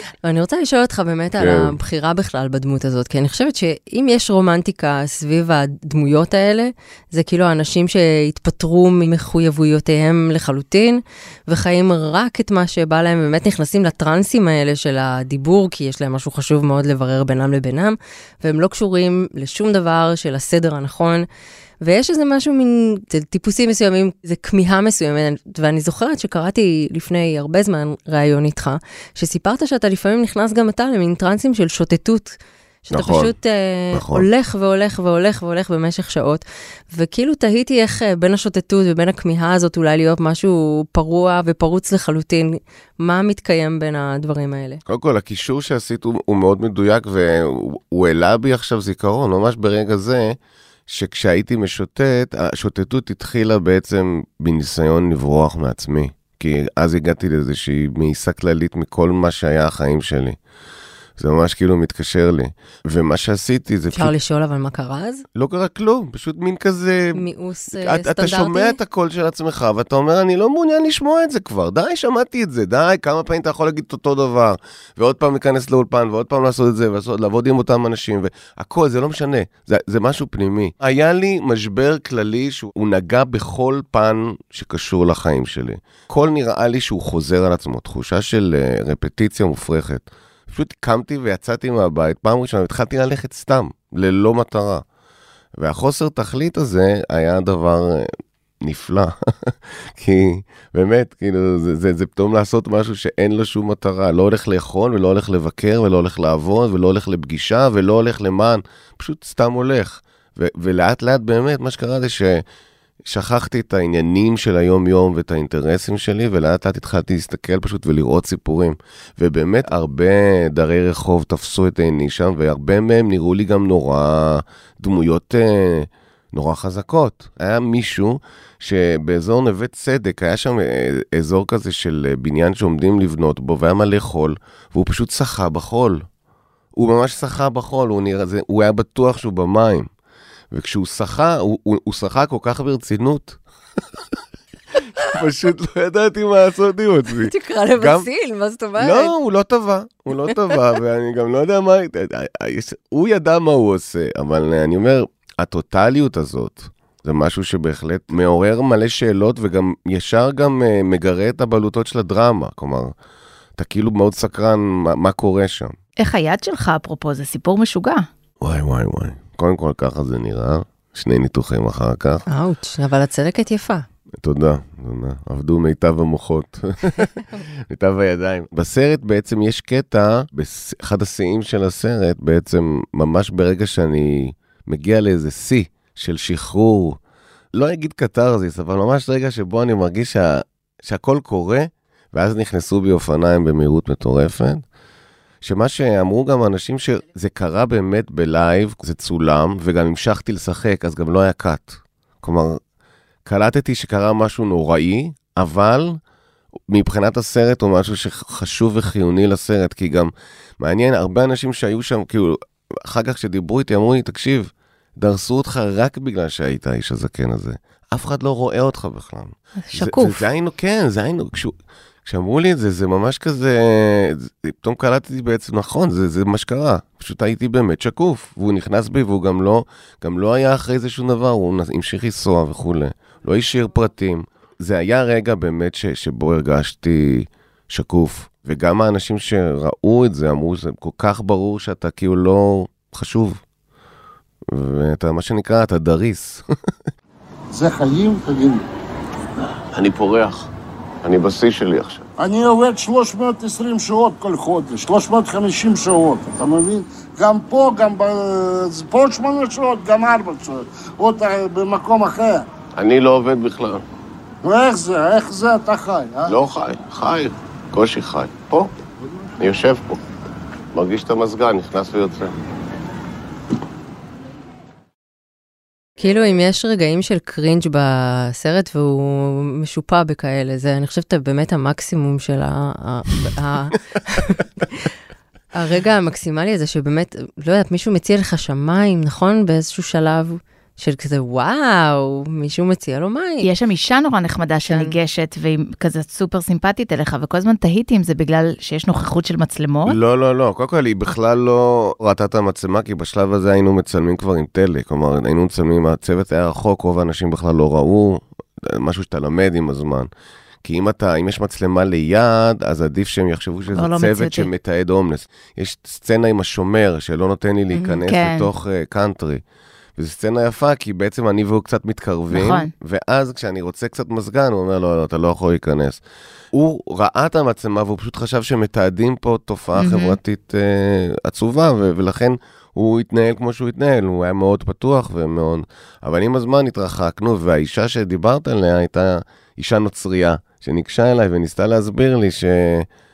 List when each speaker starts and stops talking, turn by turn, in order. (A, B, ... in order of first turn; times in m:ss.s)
0:00.2-0:21.3 A
0:01.4-0:01.8 B
0:21.8-0:44.8 A
0:32.9-0:33.4 B
0:33.9-0:34.2 B
0:44.8-1:00.4 B
1:01.2-1:04.1 B
1:03.9-1:05.2 A
1:05.3-1:34.8 B
1:07.1-1:08.8 A
1:35.6-1:52.4 B
1:53.0-2:16.0 B
2:16.7-2:19.9 B
2:20.5-2:23.4 B
2:25.0-2:28.1 B
2:27.2-2:29.1 A
2:28.8-2:42.9 B
2:43.6-2:45.8 B
2:46.0-2:48.0 C
2:48.4-2:52.2 B
2:52.3-2:53.8 A
2:54.2-3:07.0 B
3:07.5-3:14.6 B
3:15.4-3:22.6 B
3:23.2-3:26.0 B
3:26.7-4:03.4 B
3:39.6-3:40.2 C
4:04.5-4:06.4 B
4:07.5-4:08.6 D
4:09.7-4:10.4 E
4:11.0-4:12.0 E
4:12.2-4:22.4 D
4:23.0-4:23.6 E
4:24.4-4:26.4 D
4:26.4-4:28.7 E
4:29.4-4:30.0 E
4:30.7-4:32.3 E
4:36.0-4:44.9 A
4:45.5-4:53.5 A
4:53.4-5:00.0 C
4:54.6-4:54.9 A
4:59.8-5:10.1 B
5:10.6-5:19.4 B
5:13.7-5:14.5 C
5:18.0-5:18.5 C
5:20.0-5:26.0 B
5:22.3-5:22.7 C
5:26.5-5:42.9 B
5:29.7-5:30.2 C